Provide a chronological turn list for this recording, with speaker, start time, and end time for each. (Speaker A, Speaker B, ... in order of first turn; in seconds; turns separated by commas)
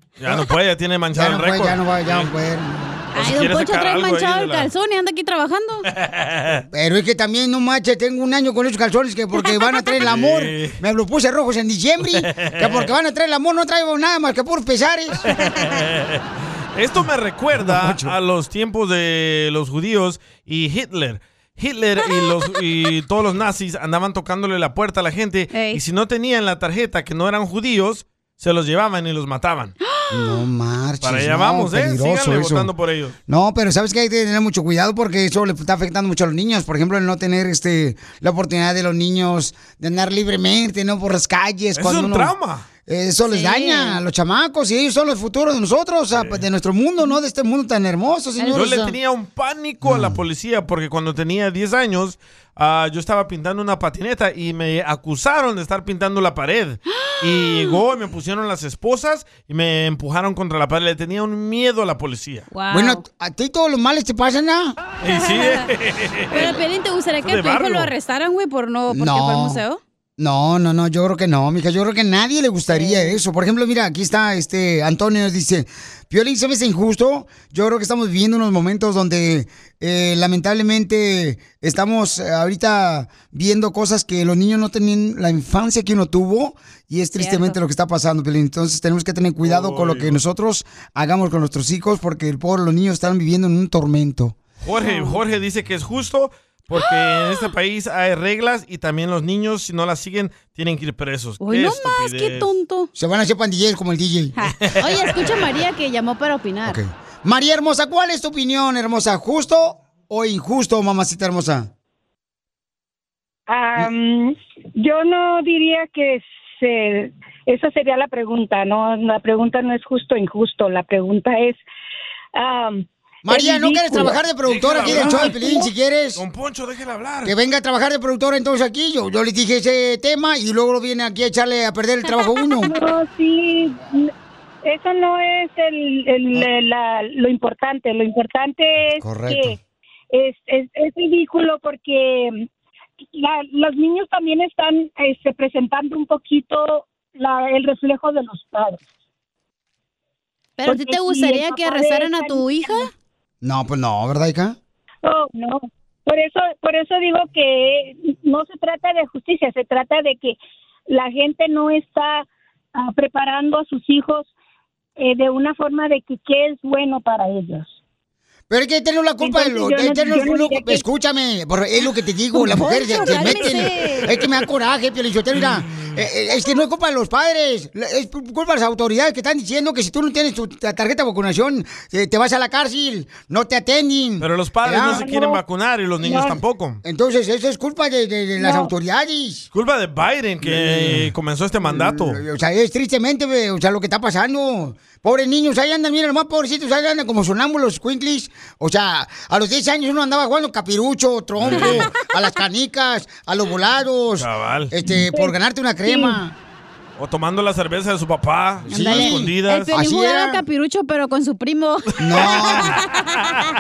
Speaker A: 0.2-2.3, Speaker B: 1.1-3.1, Speaker A: 3.1-4.7, Speaker C: 3.1-5.9, Speaker A: 6.0-6.7, Speaker B: 6.7-15.2, Speaker C: 9.4-9.8, Speaker A: 10.0-10.8, Speaker A: 12.2-12.9, Speaker A: 15.3-16.2, Speaker A: 16.8-29.8, Speaker B: 17.6-18.1, Speaker C: 22.0-22.3, Speaker C: 25.5-25.8, Speaker C: 29.9-30.4, Speaker B: 30.1-32.7, Speaker A: 31.0-33.2, Speaker B: 33.3-42.3, Speaker A: 41.8-42.7, Speaker B: 42.9-49.0, Speaker C: 43.3-44.0, Speaker A: 46.1-46.4, Speaker C: 48.4-48.8, Speaker A: 48.5-62.5, Speaker B: 49.8-50.2, Speaker C: 57.1-57.8, Speaker C: 62.5-63.0, Speaker B: 62.7-64.8, Speaker A: 65.0-66.6, Speaker C: 65.1-65.6, Speaker C: 66.3-69.8, Speaker A: 67.2-67.9, Speaker B: 68.9-69.6, Speaker B: 70.2-94.4, Speaker C: 72.7-73.2, Speaker C: 87.2-87.6, Speaker A: 89.4-90.2, Speaker A: 94.6-102.5, Speaker C: 94.8-95.2, Speaker C: 96.7-97.5, Speaker C: 101.4-102.9, Speaker B: 103.0-104.3, Speaker C: 104.4-106.8, Speaker A: 104.8-105.4, Speaker B: 106.6-111.7, Speaker D: 113.5-121.6, Speaker D: 122.4-124.2, Speaker B: 123.2-126.2, Speaker A: 124.5-125.4, Speaker A: 126.2-127.3, Speaker B: 127.2-132.7, Speaker C: 132.1-132.5, Speaker D: 132.6-134.1, Speaker D: 134.6-139.6, Speaker B: 139.0-139.6, Speaker D: 140.1-142.5, Speaker D: 143.1-148.8, Speaker C: 150.6-152.9, Speaker D: 150.7-152.9, Speaker B: 153.4-154.6, Speaker D: 155.0-164.3, Speaker D: 165.0-167.8, Speaker B: 168.5-185.1, Speaker D: 169.2-170.8, Speaker C: 172.4-174.2, Speaker A: 184.2-186.8, Speaker D: 184.9-185.4, Speaker D: 186.1-186.4, Speaker B: 186.8-189.5, Speaker D: 188.4-188.7, Speaker A: 189.5-192.2, Speaker B: 190.4-206.3, Speaker A: 201.4-201.9, Speaker C: 201.6-201.9, Speaker A: 204.2-204.7, Speaker D: 205.1-205.3, Speaker D: 205.9-206.2, Speaker A: 207.0-209.7, Speaker B: 208.7-210.4, Speaker C: 208.7-213.1, Speaker B: 212.0-212.8, Speaker A: 212.1-212.8